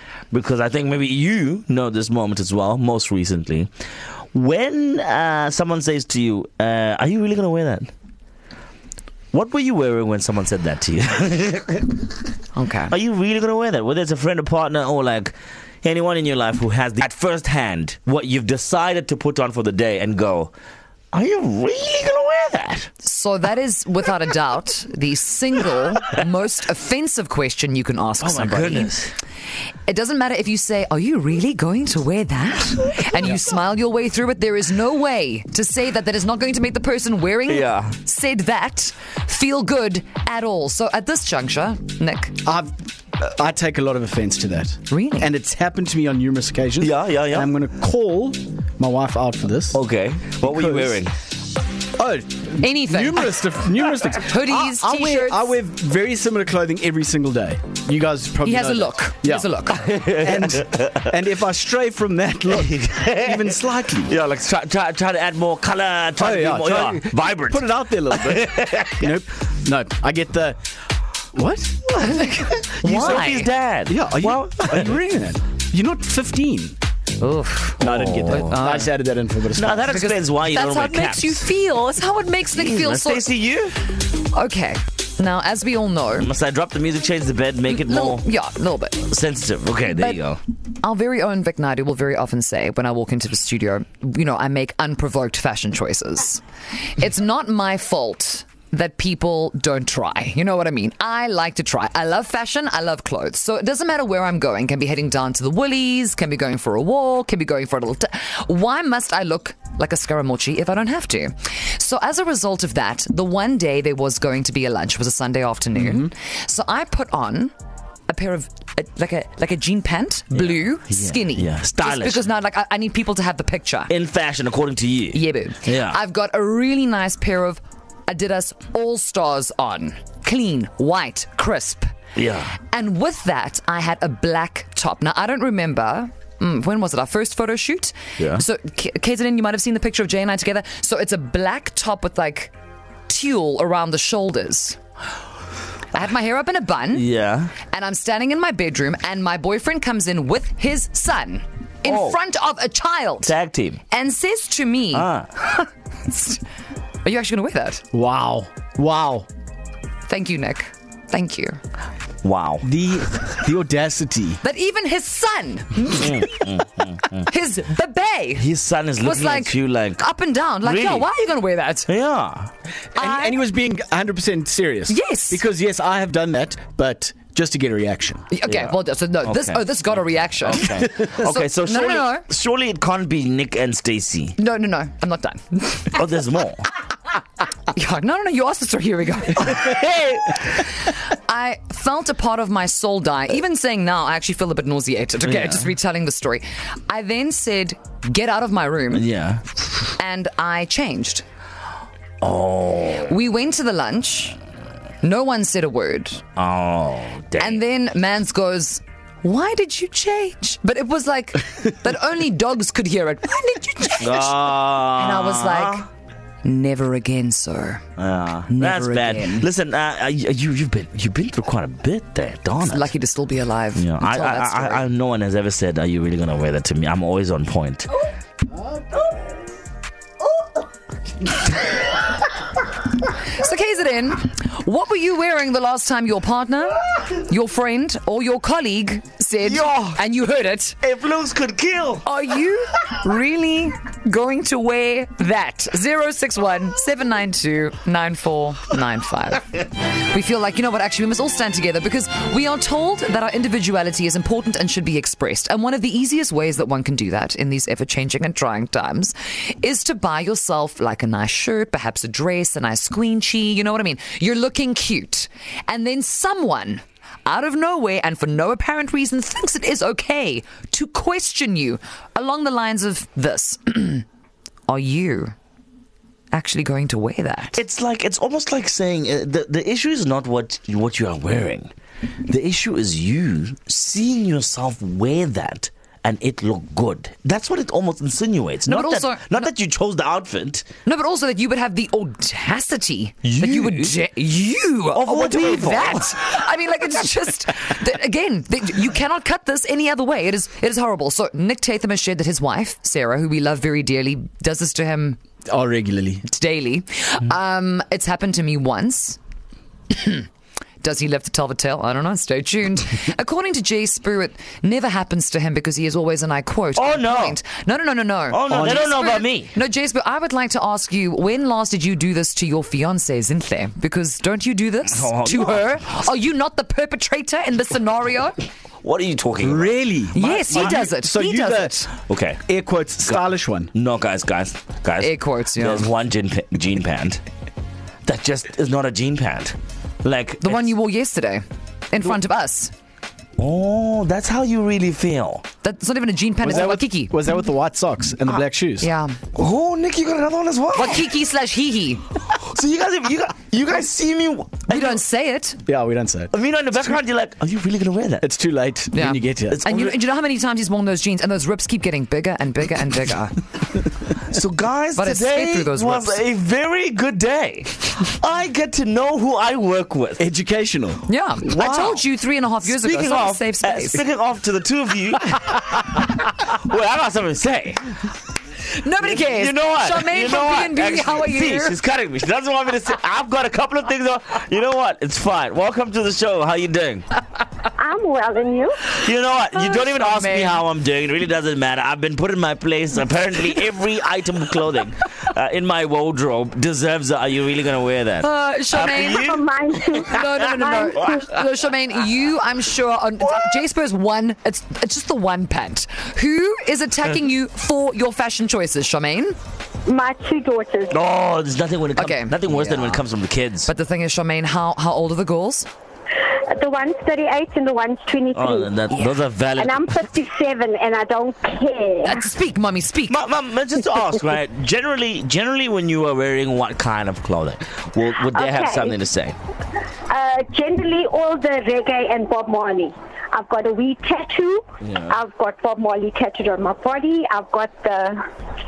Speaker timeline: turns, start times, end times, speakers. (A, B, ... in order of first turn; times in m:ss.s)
0:00.3-0:03.7 A
0:04.3-0:07.9 A
0:09.3-0:12.1 A
0:12.5-0:12.9 B
0:12.9-0:20.5 A
0:21.1-0:22.9 A
0:23.0-0:28.9 B
0:28.2-0:29.1 A
0:29.9-0:42.4 B
0:37.5-0:38.0 A
0:42.4-0:49.8 C
0:44.9-0:45.3 B
0:46.8-0:47.5 A
0:49.7-0:51.1 A
0:50.5-0:51.0 C
0:52.0-1:04.1 C
0:52.6-0:53.4 B
0:54.2-0:55.6 B
0:58.4-0:59.9 B
0:59.7-1:01.0 A
1:02.6-1:03.4 A
1:04.1-1:09.1 A
1:06.2-1:10.6 C
1:11.3-1:12.0 C
1:12.1-1:13.5 B
1:12.8-1:14.9 A
1:13.9-1:16.8 C
1:17.2-1:18.9 B
1:17.8-1:19.9 C
1:17.8-1:18.8 A
1:19.6-1:21.5 A
1:19.9-1:23.3 B
1:22.5-1:23.9 A
1:24.3-1:26.3 B
1:26.2-1:28.3 A
1:27.7-1:29.0 B
1:29.0-1:30.4 A
1:29.9-1:30.2 B
1:30.8-1:57.5 B
1:58.1-2:03.9 B
2:00.4-2:02.3 A
2:03.9-2:06.0 A
2:05.1-2:11.9 B
2:12.2-2:12.6 A
2:12.7-2:22.5 B
2:18.2-2:18.4 A
2:23.1-2:24.8 B
2:25.9-2:27.1 B
2:26.9-2:27.6 A
2:27.7-2:33.3 B
2:31.8-2:32.2 A
2:33.2-2:33.8 A
2:33.9-2:36.4 B
2:34.9-2:35.3 A
2:37.0-2:37.9 B
2:37.9-2:39.3 C
2:40.1-2:41.6 B
2:42.2-2:42.7 A
2:42.6-2:44.4 C
2:44.4-2:46.3 B
2:45.9-2:47.3 A
2:47.3-2:48.4 B
2:48.4-2:50.1 A
2:49.0-2:51.9 B
2:50.6-2:51.1 A
2:51.9-2:52.5 A
2:53.0-2:53.4 B
2:53.0-2:58.2 C
2:54.9-2:55.4 B
2:58.3-3:02.2 B
2:58.5-3:04.4 A
3:04.4-3:06.0 B
3:05.9-3:06.7 A
3:07.7-3:09.7 B
3:09.5-3:10.4 A
3:11.1-3:19.0 B
3:15.2-3:15.7 A
3:18.9-3:19.4 A
3:20.0-3:21.2 B
3:22.2-3:23.2 A
3:23.1-3:24.4 B
3:25.0-3:26.2 B
3:26.4-3:27.6 A
3:27.4-3:35.9 B
3:34.0-3:35.8 A
3:36.4-3:37.8 B
3:38.0-3:42.9 A
3:38.5-3:39.4 B
3:42.7-3:44.9 B
3:43.8-3:47.9 A
3:53.4-4:00.8 B
3:59.4-4:00.0 A
4:00.8-4:02.1 A
4:02.0-4:34.0 B
4:34.7-4:35.4 B
4:36.3-4:37.6 B
4:37.5-4:41.7 A
4:42.3-4:50.7 A
4:48.7-4:49.5 B
4:50.9-5:05.2 B
4:53.2-4:54.0 A
4:54.9-4:56.1 A
5:05.5-5:06.3 C
5:06.3-5:09.2 B
5:09.9-5:10.3 B
5:10.8-5:28.4 B
5:16.8-5:17.4 A
5:18.3-5:19.5 A
5:18.5-5:18.9 C
5:24.9-5:26.1 A
5:28.8-5:29.8 A
5:29.4-5:31.9 C
5:30.1-5:31.9 B
5:30.5-5:30.8 A
5:32.1-5:32.4 A
5:32.5-5:33.7 C
5:33.7-5:37.2 A
5:35.0-5:35.9 B
5:38.0-5:40.7 A
5:40.4-5:42.7 B
5:43.4-5:45.4 A
5:45.6-5:47.2 B
5:46.4-5:48.9 C
5:48.8-5:49.2 B
5:49.3-5:51.1 A
5:50.8-5:52.0 B
5:52.3-5:55.0 A
5:54.7-5:55.6 B
5:55.7-5:56.3 C
5:56.3-5:58.3 A
5:58.2-5:59.6 C
5:58.9-6:03.4 B
5:59.5-6:00.0 A
6:04.3-6:10.2 A
6:05.0-6:06.2 B
6:10.2-6:11.0 C
6:11.1-6:14.0 B
6:11.4-6:12.0 A
6:12.6-6:17.9 A
6:18.8-6:21.8 B
6:19.0-6:27.0 A
6:27.8-6:28.9 D
6:28.9-6:41.1 A
6:29.6-6:30.6 B
6:38.2-6:39.2 B
6:38.8-6:41.4 D
6:40.2-6:49.4 B
6:49.8-6:51.0 D
6:50.9-6:53.7 A
6:52.0-6:53.0 B
6:53.7-6:55.7 B
6:56.5-6:58.7 D
6:58.3-7:00.0 A
6:59.6-7:02.3 D
7:02.0-7:03.2 B
7:03.1-7:09.4 A
7:08.3-7:09.0 D
7:10.1-7:18.2 D
7:14.8-7:15.2 A